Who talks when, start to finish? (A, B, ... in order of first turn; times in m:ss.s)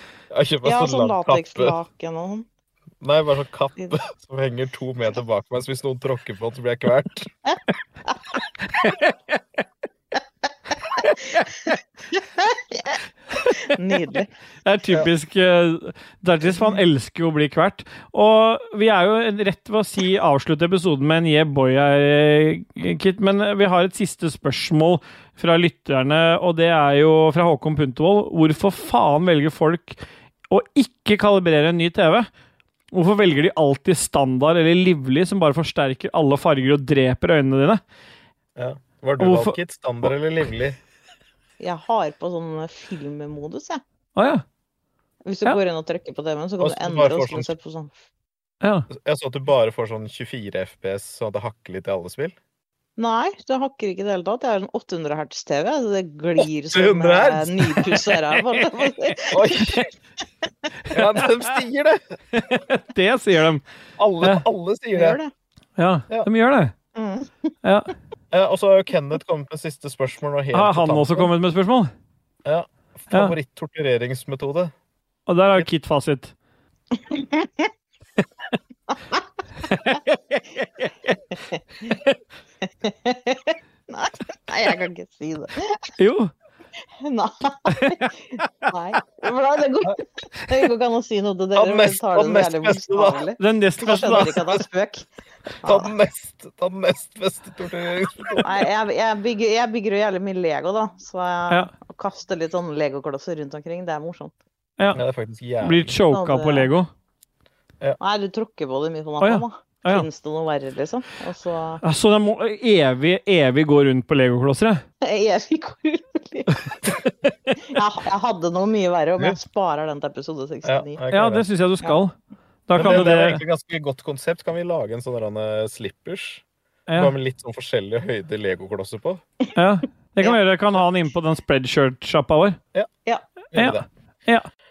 0:00.3-0:01.7 A
0:00.6-0:02.4 B
0:03.0-0:07.3 A
0:08.7-0:09.4 C
0:11.0-0:11.4 C
0:12.1-0:13.0 B
0:13.6-0:14.3 B
0:14.6-0:32.3 C
0:32.9-0:37.8 C
0:38.6-0:40.8 A
0:39.2-0:39.6 C
0:41.6-0:43.8 B
0:44.2-0:44.4 C
0:45.2-0:47.9 B
0:46.6-0:47.5 A
0:48.6-0:48.9 C
0:48.9-0:52.3 A
0:53.0-0:59.4 B
0:56.7-0:57.5 A
0:57.9-0:58.7 C
0:59.3-0:59.9 A
1:00.9-1:02.2 A
1:02.3-1:03.6 C
1:04.0-1:05.2 A
1:04.9-1:05.3 B
1:05.8-1:06.7 C
1:06.9-1:07.5 B
1:07.6-1:07.9 C
1:08.3-1:11.3 A
1:10.5-1:11.9 C
1:12.4-1:14.7 A
1:15.3-1:16.3 C
1:17.0-1:17.7 B
1:18.9-1:19.2 B
1:19.7-1:20.9 C
1:22.8-1:25.9 B
1:26.0-1:26.3 C
1:27.0-1:35.0 B
1:31.6-1:33.2 A
1:33.4-1:34.4 C
1:33.9-1:34.6 A
1:35.6-1:35.9 B
1:35.6-1:38.5 A
1:38.4-1:44.3 B
1:44.9-1:45.9 A
1:45.6-1:46.9 C
1:46.1-1:46.7 B
1:48.0-1:51.8 B
1:49.2-1:50.0 C
1:51.8-1:54.8 C
1:55.0-1:56.6 B
1:57.7-2:01.0 B
2:00.6-2:01.4 A
2:01.1-2:02.1 C
2:02.7-2:03.4 C
2:02.7-2:06.4 A
2:06.9-2:07.1 C
2:06.9-2:09.2 A
2:09.6-2:12.6 C
2:13.5-2:13.8 A
2:13.5-2:14.5 C